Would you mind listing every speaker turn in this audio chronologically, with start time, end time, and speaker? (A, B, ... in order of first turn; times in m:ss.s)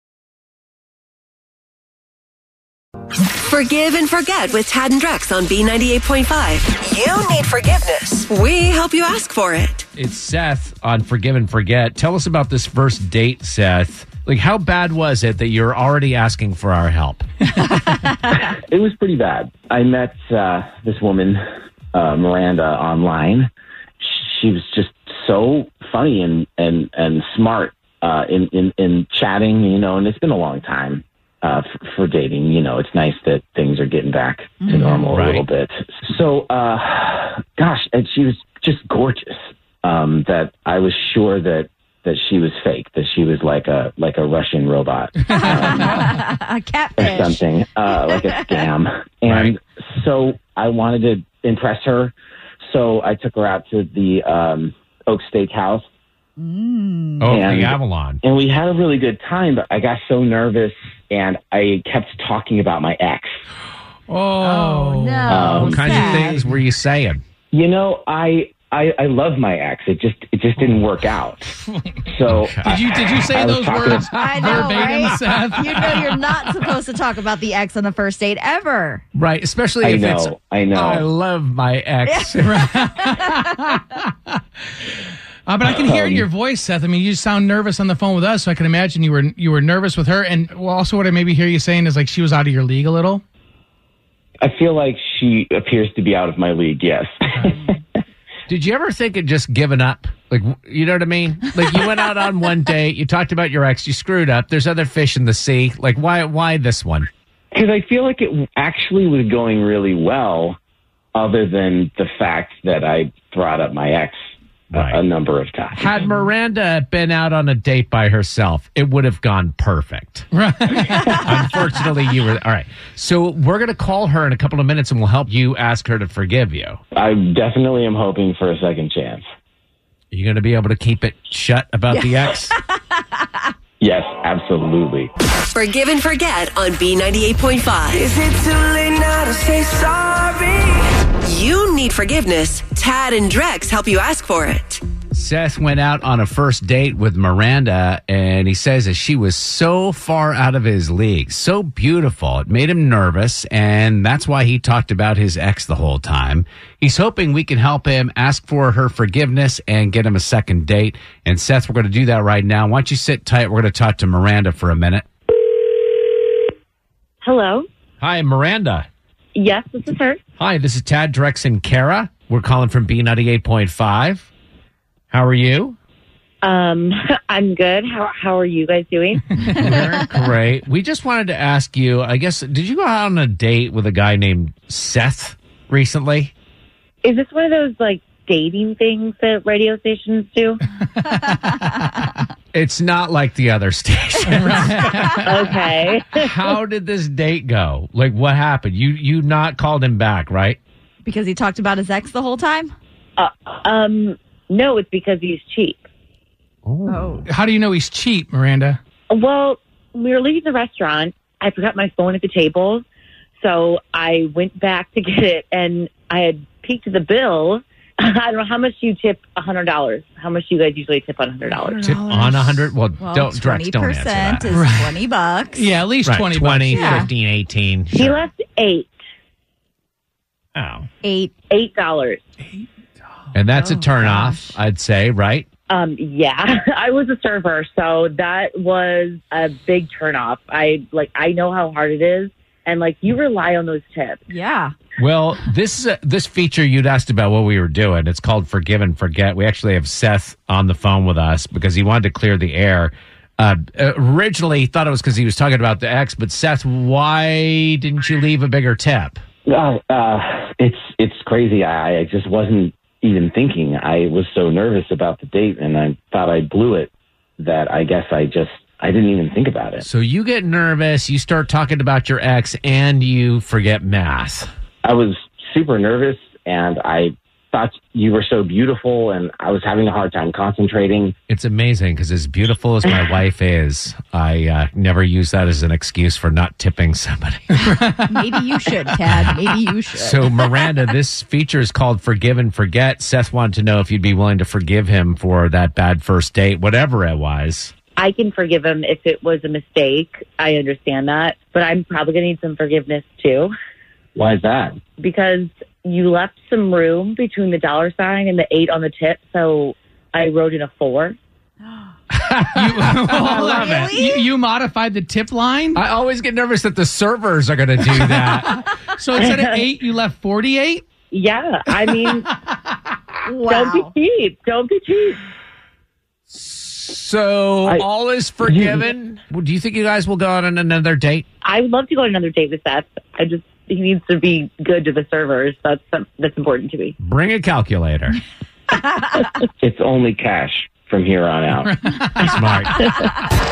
0:03.2-0:09.8 A
0:10.0-0:17.3 B
0:18.3-0:21.4 C
0:21.9-0:23.5 C
0:24.0-0:46.1 C
0:34.6-0:35.1 D
0:35.1-0:35.4 B
0:45.3-0:48.7 D
0:45.8-0:46.2 E
0:47.0-0:55.8 C
0:49.2-0:49.5 B
0:56.4-0:57.3 D
0:57.2-0:58.2 B
0:57.3-1:03.4 C
1:04.1-1:06.5 E
1:04.4-1:06.3 D
1:05.3-1:05.8 C
1:05.4-1:07.2 B
1:07.5-1:11.5 C
1:11.6-1:12.0 E
1:12.1-1:12.7 C
1:12.3-1:12.8 B
1:12.6-1:16.7 E
1:13.3-1:14.7 C
1:14.1-1:19.0 D
1:19.1-1:22.6 B
1:19.8-1:21.1 C
1:22.0-1:22.4 D
1:22.4-1:24.4 E
1:23.1-1:23.4 D
1:25.4-1:33.2 E
1:25.8-1:26.3 C
1:34.4-1:37.8 C
1:38.5-1:47.1 B
1:47.5-1:50.6 C
1:51.2-1:54.2 C
1:54.7-1:55.0 B
1:54.7-1:55.9 C
1:55.7-2:00.3 B
2:00.3-2:00.9 E
2:01.1-2:06.8 B
2:06.9-2:09.2 C
2:10.1-2:12.6 B
2:12.0-2:13.2 D
2:13.8-2:15.1 C
2:15.5-2:18.2 A
2:18.1-2:20.8 F
2:21.2-2:24.8 A
2:25.1-2:45.0 B
2:47.2-2:47.6 G
2:48.0-2:48.9 B
2:49.3-2:50.2 G
2:50.4-2:54.3 B
2:55.1-2:55.8 B
2:56.4-2:59.6 G
2:59.5-3:06.3 B
3:07.0-3:10.6 G
3:12.5-3:15.6 B
3:14.3-3:15.3 E
3:15.2-3:16.3 G
3:16.1-3:20.6 B
3:21.0-3:22.7 D
3:23.2-3:25.8 G
3:26.6-3:27.2 B
3:26.9-3:27.2 D
3:27.2-3:28.8 E
3:29.1-3:32.8 G
3:33.4-3:41.8 G
3:41.6-3:42.7 E
3:41.8-3:44.5 B
3:43.0-3:45.7 D
3:44.5-3:45.0 E
3:45.5-3:47.0 E
3:46.0-3:48.2 B
3:46.7-3:47.1 D
3:47.9-3:48.9 G
3:50.5-3:50.9 B
3:51.0-3:51.3 D
3:51.5-3:52.2 G
3:53.3-3:55.4 B
3:53.6-3:54.6 D
3:55.7-4:04.2 G
4:04.3-4:04.7 D
4:05.0-4:19.2 B
4:19.5-4:29.8 C
4:29.8-4:34.5 B
4:34.8-4:41.1 C
4:41.3-4:47.5 B
4:47.6-4:48.7 E
4:48.0-4:50.3 D
4:49.9-4:57.7 B
4:58.0-5:03.5 G
5:04.1-5:04.8 C
5:05.0-5:11.2 G
5:12.1-5:13.9 B
5:12.6-5:15.8 E
5:13.4-5:14.2 D
5:15.8-5:18.6 B
5:18.2-5:20.8 E
5:19.2-5:19.6 G
5:21.1-5:22.2 G
5:22.0-5:22.6 E
5:23.3-5:23.9 D
5:23.4-5:25.2 G
5:26.3-5:31.2 B
5:28.4-5:28.8 C
5:31.4-5:36.9 G
5:37.0-5:38.2 B
5:39.6-5:41.7 C
5:41.6-5:42.2 E
5:42.2-5:43.1 B
5:42.4-5:43.2 G